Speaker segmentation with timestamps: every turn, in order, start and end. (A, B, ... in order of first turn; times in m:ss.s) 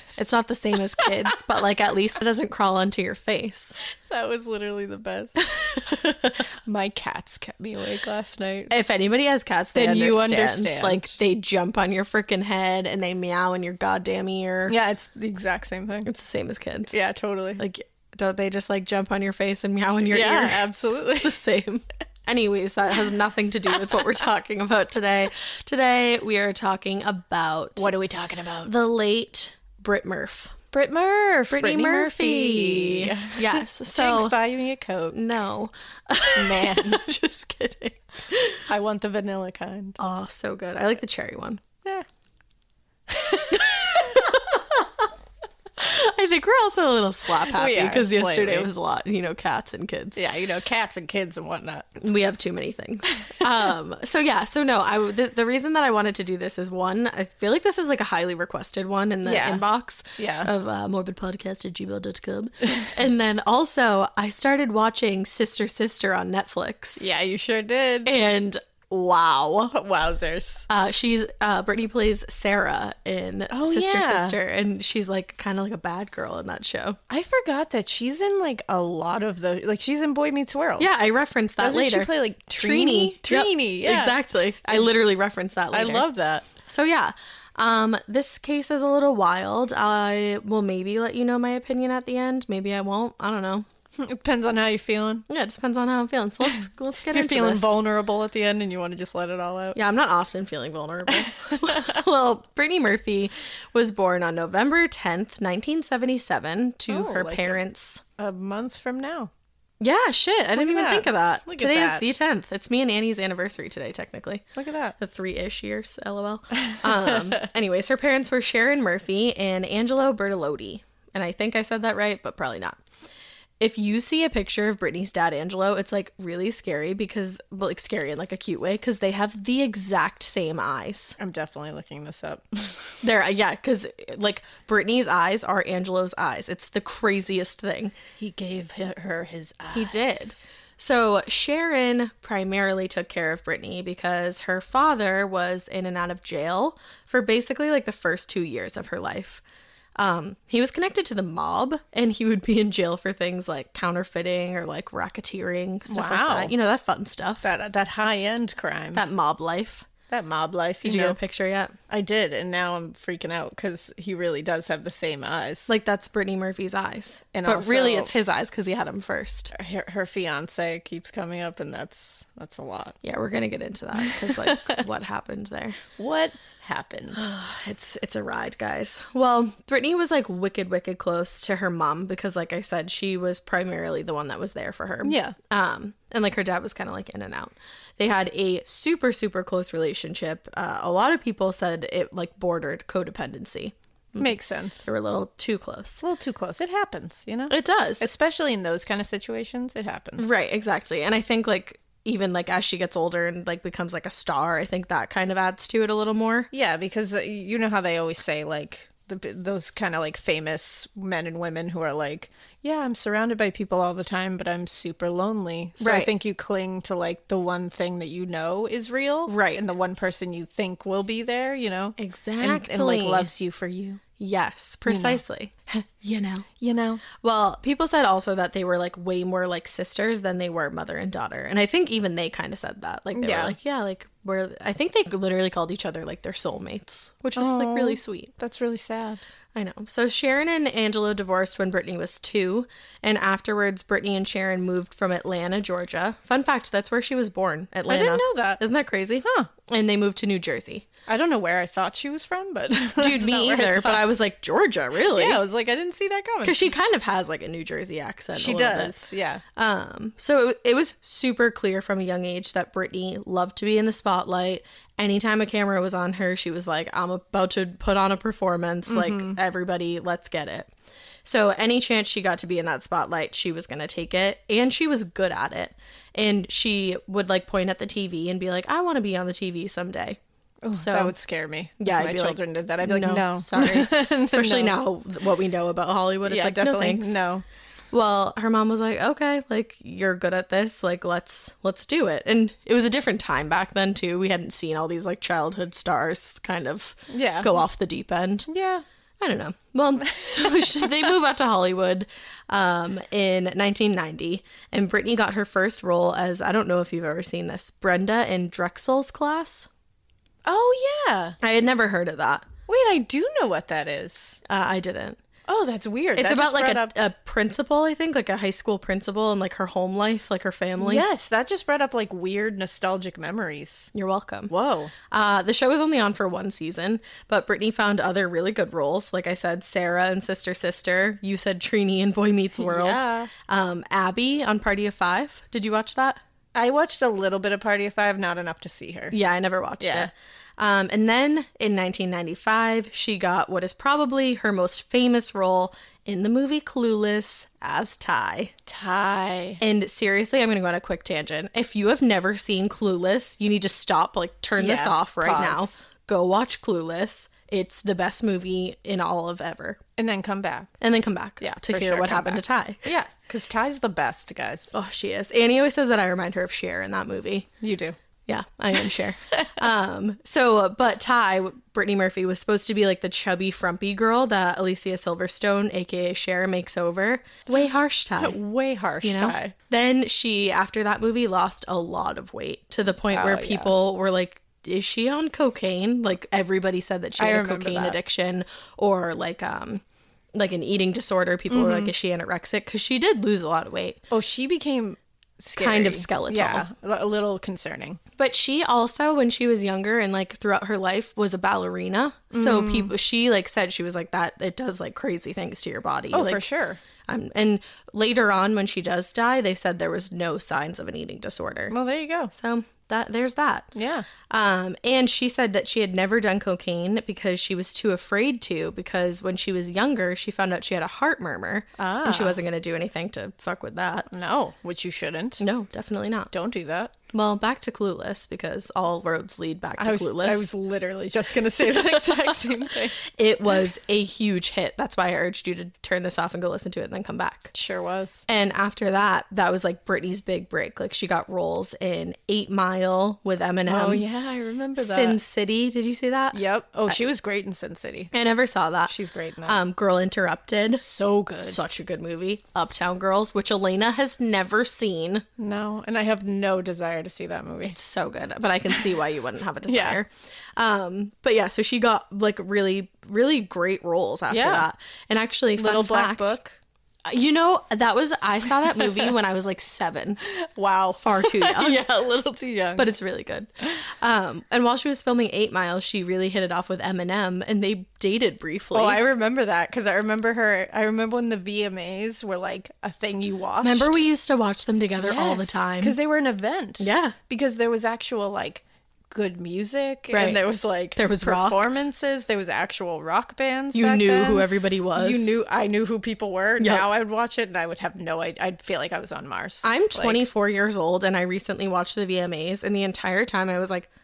0:00.2-0:03.8 A
0:04.0-0:06.1 B
0:06.6-0:08.7 B
0:08.7-0:14.8 A
0:09.7-0:11.1 B
0:14.7-0:16.1 B
0:16.0-0:17.0 A
0:16.9-0:17.6 B
0:17.6-0:27.9 A
0:20.1-0:21.3 B
0:27.8-0:28.7 B
0:28.6-0:30.5 A
0:30.7-0:35.2 B
0:31.5-0:34.4 A
0:35.1-0:38.6 A
0:36.4-0:37.0 B
0:38.7-0:40.0 B
0:40.0-0:41.6 A
0:43.1-0:44.3 B
0:43.5-0:44.8 A
0:45.8-0:50.2 A
0:47.5-0:48.7 B
0:50.2-0:51.9 B
0:52.0-1:07.0 A
0:59.2-0:59.6 B
1:00.2-1:00.5 B
1:07.0-1:08.1 B
1:08.0-1:09.7 A
1:09.7-1:10.6 B
1:10.7-1:17.0 A
1:13.5-1:14.4 B
1:17.1-1:20.9 B
1:20.8-1:26.1 A
1:21.6-1:24.9 B
1:25.7-1:26.5 B
1:26.6-1:33.6 A
1:34.0-1:35.2 B
1:35.3-1:37.7 A
1:37.1-1:39.8 B
1:39.7-1:48.0 A
1:41.5-1:41.9 B
1:46.9-1:47.6 B
1:48.2-1:49.3 B
1:49.8-1:54.4 A
1:50.6-1:52.0 B
1:54.6-1:55.0 B
1:55.0-2:02.8 A
2:03.6-2:11.2 A
2:11.2-2:12.9 B
2:13.0-2:17.9 A
2:18.2-2:20.4 B
2:19.7-2:29.4 A
2:30.0-2:37.5 A
2:35.9-2:36.5 B
2:37.4-2:39.0 B
2:38.9-2:39.8 A
2:40.1-2:41.2 B
2:40.8-2:41.7 A
2:41.9-2:45.7 B
2:45.7-2:49.5 A
2:47.3-2:48.1 B
2:49.5-2:53.0 B
2:53.0-2:55.8 A
2:54.1-2:54.6 B
2:56.0-2:57.3 B
2:57.1-3:14.3 A
3:05.0-3:05.4 B
3:14.2-3:14.9 B
3:14.8-3:16.0 A
3:16.0-3:20.3 B
3:17.5-3:18.1 A
3:20.2-3:26.5 A
3:26.5-3:44.0 B
3:35.8-3:36.1 A
3:39.3-3:39.6 A
3:42.0-3:43.3 A
3:44.2-3:46.4 A
3:44.9-3:45.2 B
3:46.6-3:47.0 B
3:47.2-3:58.3 A
3:53.2-3:53.6 B
3:57.4-3:59.2 B
3:59.5-4:10.8 A
4:07.9-4:08.6 B
4:11.1-4:14.0 B
4:13.0-4:15.4 A
4:15.1-4:16.7 B
4:16.4-4:18.9 A
4:18.3-4:19.4 B
4:19.6-4:30.7 A
4:28.9-4:29.4 B
4:31.2-4:40.2 A
4:40.6-4:44.8 B
4:40.7-4:41.1 A
4:41.8-4:47.2 A
4:46.3-4:47.4 B
4:47.9-4:58.5 A
4:57.1-4:57.5 B
4:58.5-4:58.8 B
4:59.2-5:09.7 A
5:00.4-5:00.7 B
5:10.4-5:11.4 B
5:11.4-5:12.4 A
5:12.7-5:14.4 B
5:14.5-5:15.2 A
5:15.5-5:16.9 B
5:16.2-5:21.0 A
5:20.8-5:23.9 B
5:23.9-5:24.5 A
5:24.5-5:24.9 B
5:25.1-5:36.2 A
5:32.6-5:33.3 B
5:36.5-5:39.1 B
5:39.1-5:48.5 A
5:39.8-5:40.1 B
5:48.7-5:49.6 B
5:49.6-5:59.8 A
5:54.6-5:55.8 B
6:00.0-6:00.7 B
6:00.8-6:03.0 A
6:01.4-6:04.7 B
6:04.7-6:07.5 A
6:07.6-6:08.0 B
6:08.3-6:18.4 A
6:18.2-6:19.5 B
6:19.0-6:29.8 A
6:23.1-6:23.7 B
6:27.2-6:28.0 B
6:30.3-6:34.0 A
6:31.5-6:31.9 B
6:34.1-6:38.0 B
6:35.6-6:36.6 A
6:38.2-6:46.4 A
6:42.3-6:42.9 B
6:46.1-6:46.8 B
6:47.1-6:51.7 A
6:51.7-6:52.3 B
6:52.3-6:53.7 A
6:53.8-6:54.1 B
6:54.3-7:04.1 A
7:01.8-7:02.4 B
7:04.1-7:05.4 B
7:05.4-7:06.3 A
7:06.3-7:06.9 B
7:07.1-7:10.5 A
7:09.8-7:13.0 B
7:11.8-7:12.2 A
7:13.1-7:17.5 A
7:17.5-7:18.2 B
7:18.3-7:24.0 A
7:23.7-7:25.2 B
7:24.8-7:27.0 A
7:26.3-7:28.1 B
7:28.1-7:28.9 A
7:28.9-7:29.6 B
7:29.4-7:30.8 A
7:30.7-7:31.6 B
7:31.4-7:35.2 A
7:35.4-7:37.7 B
7:37.6-7:46.4 A
7:39.7-7:40.0 B
7:44.3-7:44.6 B
7:45.6-7:46.6 B
7:47.0-7:50.2 A
7:50.5-7:52.9 B
7:51.0-7:52.0 A
7:52.8-7:53.5 A
7:54.0-7:59.0 A
7:58.7-8:04.0 B
8:03.6-8:06.0 A
8:05.0-8:20.2 B
8:06.8-8:07.2 A
8:10.1-8:10.4 A
8:10.9-8:11.6 A
8:13.7-8:15.3 A
8:16.6-8:16.8 A
8:19.6-8:23.9 A